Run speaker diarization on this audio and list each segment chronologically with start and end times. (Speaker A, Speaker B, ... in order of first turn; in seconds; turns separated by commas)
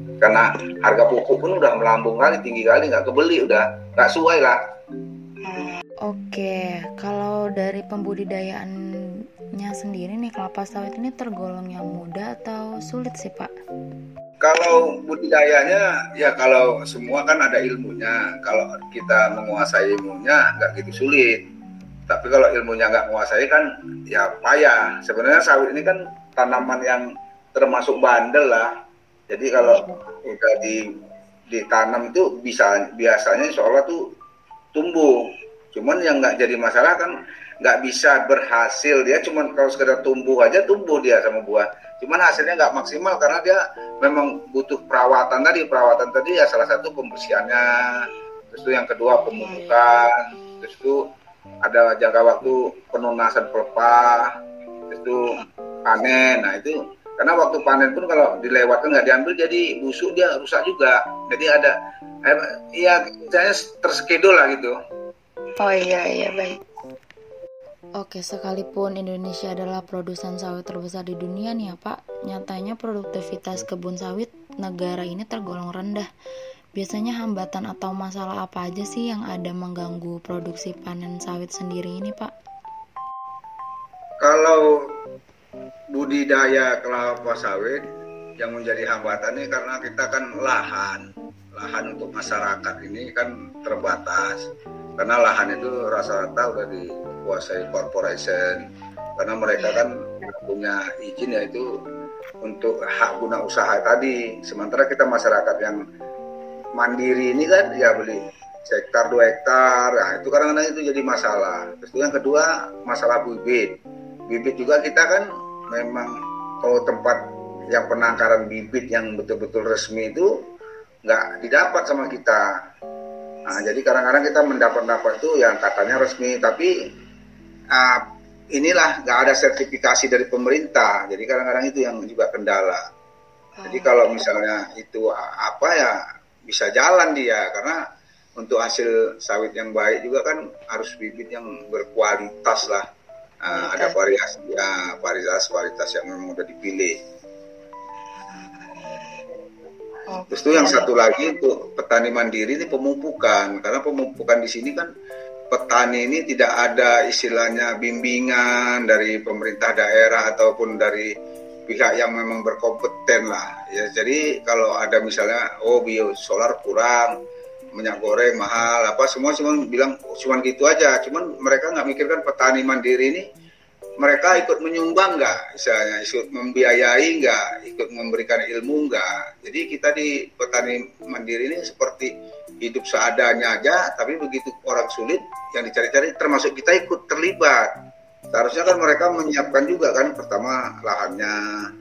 Speaker A: 0.2-4.6, Speaker B: 6.0-8.8, Speaker B: 9.6-13.5, Speaker A: 14.4-21.4, Speaker A: 22.1-28.7, Speaker A: 29.3-30.8, Speaker A: 31.5-34.1, Speaker A: 34.7-51.1, Speaker A: 51.6-54.4, Speaker A: 54.9-61.7, Speaker A: 62.2-64.8, Speaker C: 65.6-66.6, Speaker B: 68.0-76.1, Speaker B: 76.8-82.3, Speaker A: 84.2-84.9, Speaker A: 85.9-87.8, Speaker A: 88.4-94.5, Speaker A: 95.0-98.7, Speaker A: 99.2-101.7, Speaker A: 102.4-105.8, Speaker A: 106.8-113.8, Speaker A: 114.3-120.3, Speaker A: 121.1-122.5, Speaker A: 123.5-126.7, Speaker A: 127.7-132.8, Speaker C: 133.6-134.0, Speaker A: 133.7-137.8, Speaker A: 138.4-142.9, Speaker A: 143.4-147.0, Speaker C: 143.5-144.0, Speaker C: 148.3-149.0, Speaker C: 150.1-151.1, Speaker A: 150.3-154.9, Speaker A: 155.5-161.1, Speaker A: 161.7-167.2, Speaker A: 167.8-173.3, Speaker A: 174.0-182.1, Speaker A: 182.6-187.7, Speaker A: 188.3-191.7